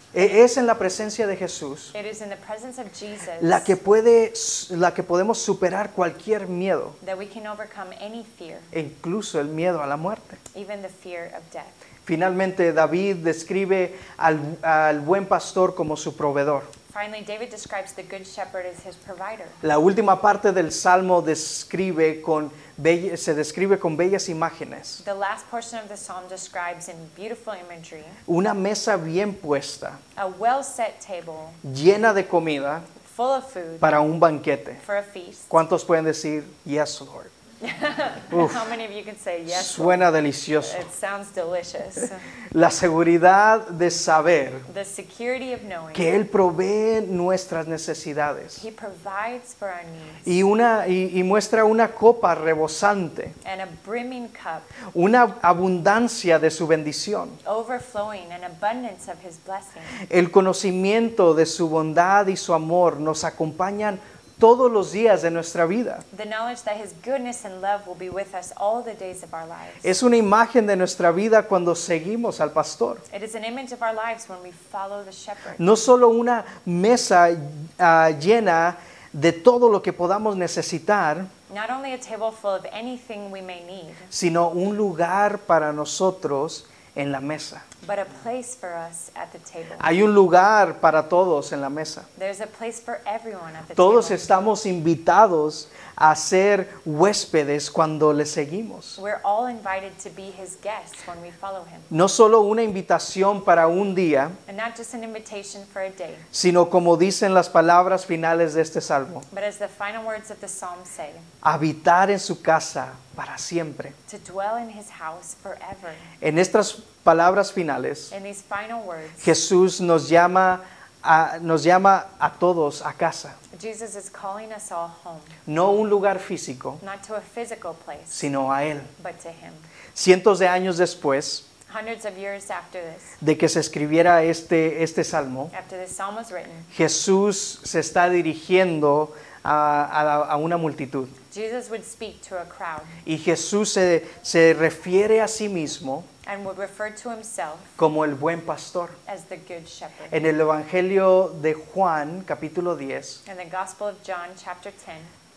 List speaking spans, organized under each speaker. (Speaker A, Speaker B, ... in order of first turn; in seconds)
Speaker A: 0.1-1.9, 3.4-7.0, 8.7-10.4, 12.1-16.7, 19.6-25.0, 28.3-30.0, 31.6-32.9, 33.8-34.8, 35.5-37.3, 38.3-38.6, 39.5-40.8, 42.5-44.6, 45.9-48.6, 50.2-53.3, 54.9-57.4, 60.1-66.0, 69.8-73.0, 75.6-81.3, 84.1-87.6, 89.8-92.1, 93.8-99.0, 101.9-104.4, 106.3-109.2, 111.4-113.9, 116.2-118.1, 119.2-123.3, 125.5-126.8, 128.1-128.9, 129.9-131.4, 133.2-135.5, 136.7-141.1, 143.0-146.1, 147.8-149.0, 150.1-153.2
Speaker B: 1.9-3.7, 7.0-8.7, 10.5-11.8, 16.9-19.6, 25.0-28.2, 30.1-31.6, 33.0-33.9, 34.8-35.5, 37.6-42.2, 44.7-46.2, 48.6-50.3, 53.4-54.7, 57.4-60.0, 66.1-69.9, 73.1-75.8, 81.5-84.1, 87.8-89.9, 92.2-94.2, 99.0-101.9, 104.5-106.2, 109.3-111.2, 114.1-116.1, 118.1-119.3, 123.5-125.3, 126.8-128.3, 129.0-129.7, 131.7-133.2, 135.5-136.7, 141.3-143.0, 146.2-147.7, 149.1-150.2, 153.2-155.1